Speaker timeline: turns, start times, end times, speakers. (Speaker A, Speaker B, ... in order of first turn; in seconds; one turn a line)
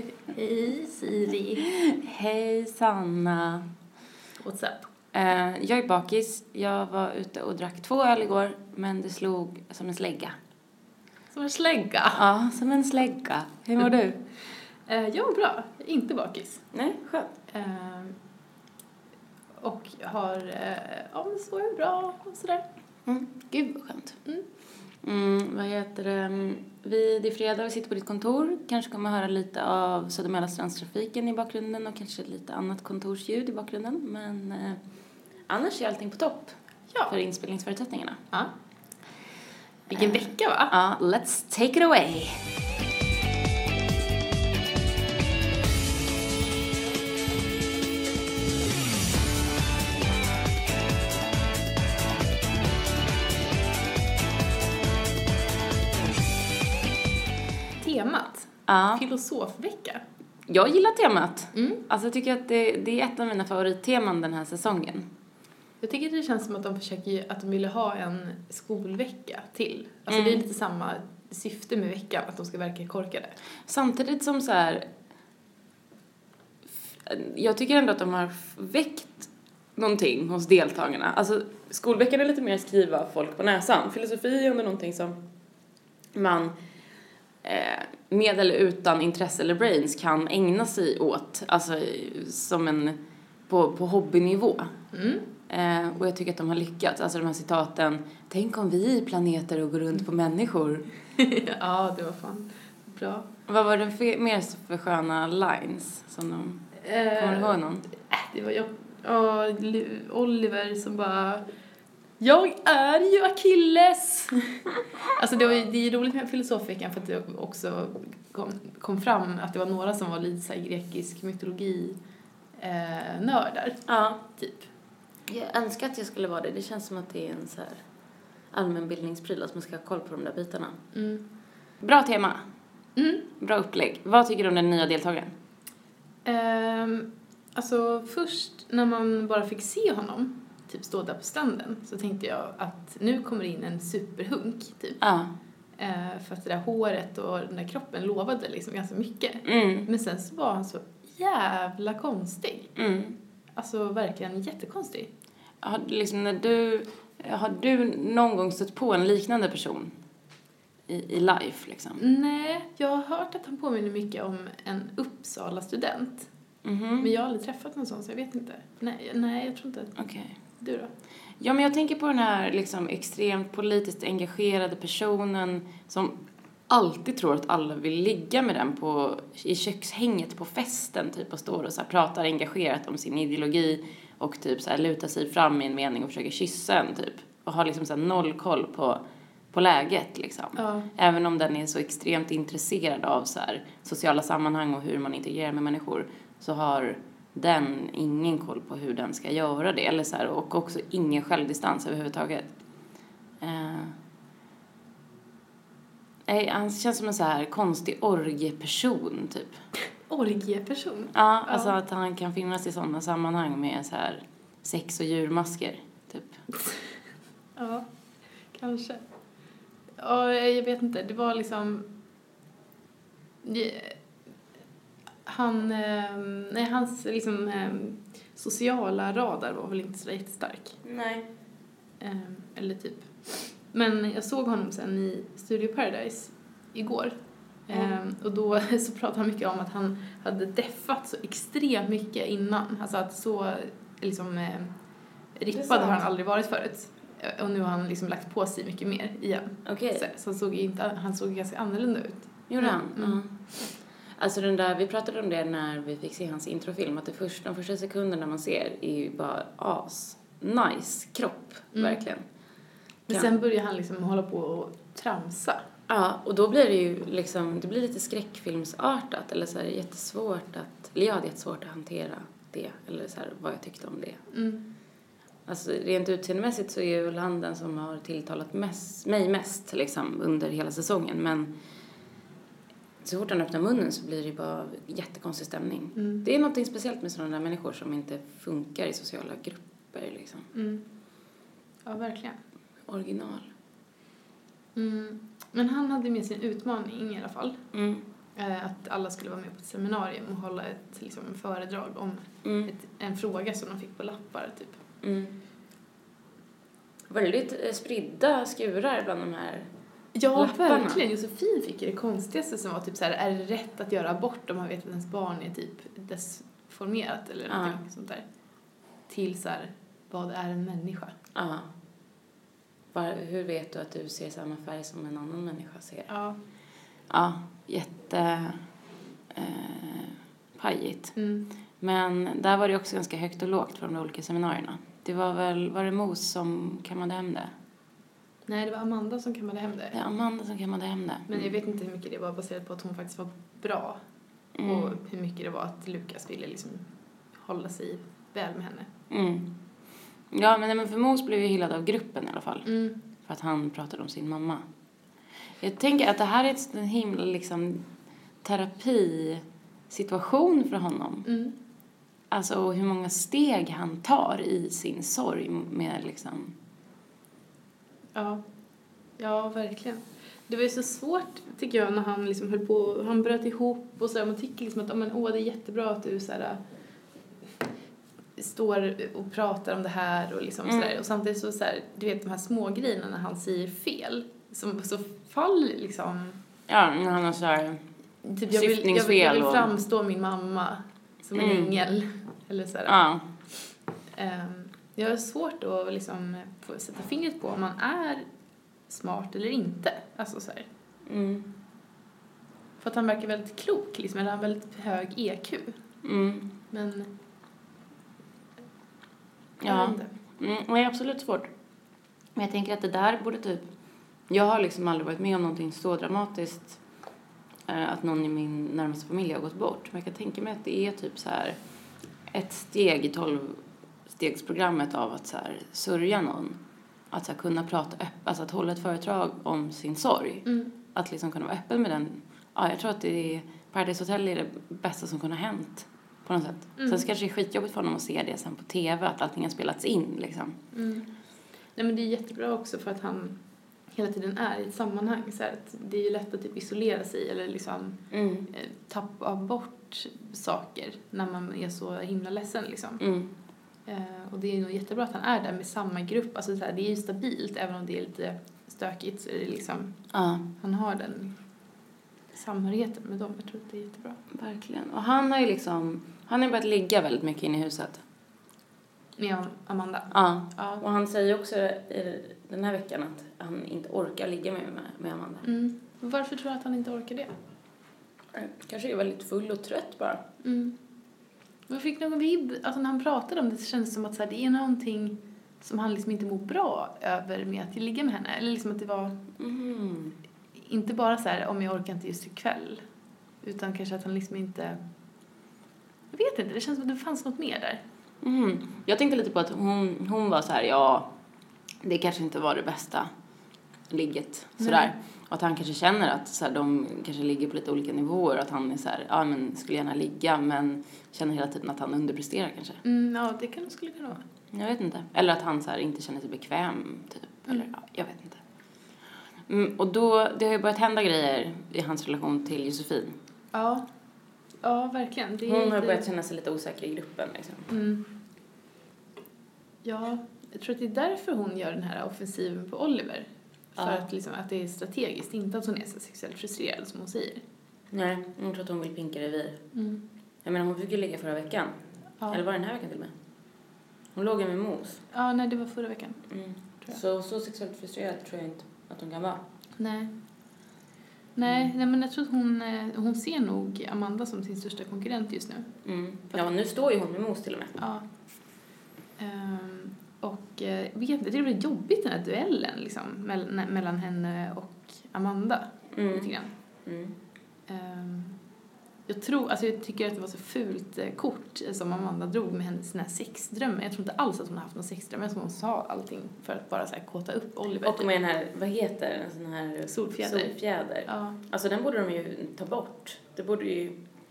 Speaker A: 0.3-1.6
Speaker B: 1.6-3.7
Speaker A: 4.4-4.9
Speaker B: 5.1-10.3
Speaker A: 11.3-12.2
Speaker B: 12.1-14.2
Speaker A: 14.8-16.6
Speaker B: 16.7-17.3
Speaker A: 17.5-18.2
Speaker A: 19.6-22.6
Speaker B: 23.1-24.2
Speaker B: 25.0-34.8
Speaker B: 35.5-38.2
Speaker A: 36.9-37.1
Speaker A: 39.9-40.7
Speaker B: 39.9-42.4
Speaker A: 57.8-60.0
Speaker B: 58.7-59.0
Speaker B: 60.5-65.1
Speaker A: 61.5-61.8
Speaker A: 65.8-73.3
Speaker B: 70.1-70.4
Speaker B: 73.7-74.9
Speaker B: 77.0-85.2
Speaker B: 86.1-86.6
Speaker B: 87.4-93.0
Speaker B: 93.5-94.7
Speaker A: 94.9-95.3
Speaker B: 95.5-100.9
Speaker A: 101.2-103.3
Speaker B: 103.5-107.9
Speaker A: 106.8-111.4
Speaker A: 112.2-122.0
Speaker A: 122.5-123.8
Speaker B: 123.8-124.2
Speaker A: 124.3-124.7
Speaker B: 125.3-127.8
Speaker B: 128.5-130.8
Speaker A: 130.9-131.3
Speaker B: 131.8-132.4
Speaker A: 132.9-133.2
Speaker B: 133.4-135.3
Speaker A: 136.2-145.0
Speaker B: 145.0-145.3
Speaker A: 145.8-152.7
Speaker B: 149.4-149.9
Speaker B: 152.8-153.2
Speaker A: 153.6-155.1
Speaker B: 155.6-159.9
Speaker B: 160.9-162.0
Speaker A: 162.0-166.3
Speaker B: 166.6-167.1
Speaker A: 167.0-169.9
Speaker B: 170.0-170.3
Speaker A: 170.6-170.9
Speaker B: 171.4-202.6
Speaker A: 190.6-190.9
Speaker B: 203.4-203.9
Speaker B: 206.3-209.6
Speaker A: 210.1-211.7
Speaker B: 211.1-216.4
Speaker A: 217.6-217.9
Speaker A: 218.5-219.0
Speaker A: 220.0-221.9
Speaker A: 223.4-224.0
Speaker A: 225.2-230.8
Speaker B: 230.8-231.3
Speaker A: 232.0-237.2
Speaker A: 237.7-244.8
Speaker A: 245.4-253.2
Speaker B: 245.5-246.0
Speaker B: 249.6-250.1
Speaker B: 252.5-253.4
Speaker B: 254.2-262.2
Speaker A: 261.7-262.0
Speaker A: 263.1-265.6
Speaker B: 265.9-274.2
Speaker A: 274.3-274.6
Speaker B: 275.5-281.5
Speaker B: 283.0-290.5
Speaker A: 285.9-286.2
Speaker A: 290.5-290.9
Speaker A: 291.8-292.4
Speaker B: 292.9-293.5
Speaker A: 294.7-297.6
Speaker B: 297.7-298.1
Speaker A: 298.3-304.8
Speaker B: 302.4-302.7
Speaker B: 305.0-305.4
Speaker B: 307.1-309.7
Speaker A: 310.1-318.2
Speaker B: 310.3-311.0
Speaker B: 317.5-317.8
Speaker A: 319.1-321.1
Speaker B: 321.3-321.7
Speaker B: 322.9-326.1
Speaker A: 326.1-326.4
Speaker B: 327.1-328.6
Speaker B: 329.3-331.1
Speaker A: 331.1-331.5
Speaker B: 331.8-337.5
Speaker A: 338.5-340.0
Speaker B: 339.9-341.5
Speaker A: 341.3-344.0
Speaker B: 344.6-345.0
Speaker A: 344.6-348.9
Speaker B: 349.1-349.6
Speaker B: 350.3-354.6
Speaker A: 352.6-353.0
Speaker B: 355.6-357.9
Speaker B: 358.4-361.3
Speaker A: 361.2-361.6
Speaker B: 362.3-366.5
Speaker A: 368.1-368.4
Speaker A: 369.2-376.6
Speaker A: 378.4-386.4
Speaker B: 380.7-380.9
Speaker B: 386.7-387.8
Speaker A: 388.2-393.0
Speaker B: 388.5-389.7
Speaker B: 391.3-391.8
Speaker B: 392.9-393.2
Speaker A: 394.1-398.2
Speaker A: 398.9-400.7
Speaker B: 401.1-401.5
Speaker A: 402.8-405.8
Speaker B: 406.0-406.6
Speaker A: 406.7-407.1
Speaker B: 409.6-411.5
Speaker A: 409.6-410.1
Speaker B: 412.4-413.7
Speaker B: 414.3-416.8
Speaker B: 417.7-421.6
Speaker B: 422.3-426.6
Speaker B: 427.1-440.6
Speaker A: 430.4-430.7
Speaker A: 436.8-437.0
Speaker A: 440.7-441.1
Speaker A: 441.8-453.0
Speaker B: 448.1-448.5
Speaker B: 453.0-453.3
Speaker A: 453.9-460.0
Speaker B: 460.1-460.5
Speaker A: 460.6-461.4
Speaker A: 462.3-464.2
Speaker B: 464.3-468.0
Speaker A: 469.2-470.8
Speaker B: 470.1-475.4
Speaker A: 475.4-477.3
Speaker B: 478.3-480.2
Speaker A: 480.4-480.8
Speaker A: 481.7-489.2
Speaker B: 489.4-490.2
Speaker A: 490.5-492.8
Speaker A: 493.4-494.8
Speaker A: 496.1-497.8
Speaker B: 498.2-501.1
Speaker B: 501.8-503.1
Speaker B: 503.9-512.8
Speaker A: 504.6-504.9
Speaker A: 512.8-514.2
Speaker B: 514.5-518.4
Speaker B: 519.5-523.1
Speaker A: 523.5-523.9
Speaker A: 524.6-526.1
Speaker B: 525.4-527.7
Speaker A: 527.7-528.1
Speaker A: 529.8-537.4
Speaker B: 533.8-534.0
Speaker B: 537.9-539.6
Speaker A: 539.7-540.0
Speaker B: 540.4-541.8
Speaker B: 542.3-543.1
Speaker B: 544.1-545.0
Speaker A: 545.1-546.2
Speaker B: 546.3-549.4
Speaker A: 549.8-550.1
Speaker A: 551.4-555.7
Speaker B: 555.8-557.8
Speaker A: 557.8-558.0
Speaker A: 559.2-566.5
Speaker B: 565.9-566.3
Speaker B: 566.8-567.1
Speaker A: 567.7-568.4
Speaker A: 569.1-578.1
Speaker B: 577.8-584.0
Speaker A: 579.9-580.5
Speaker A: 581.1-581.4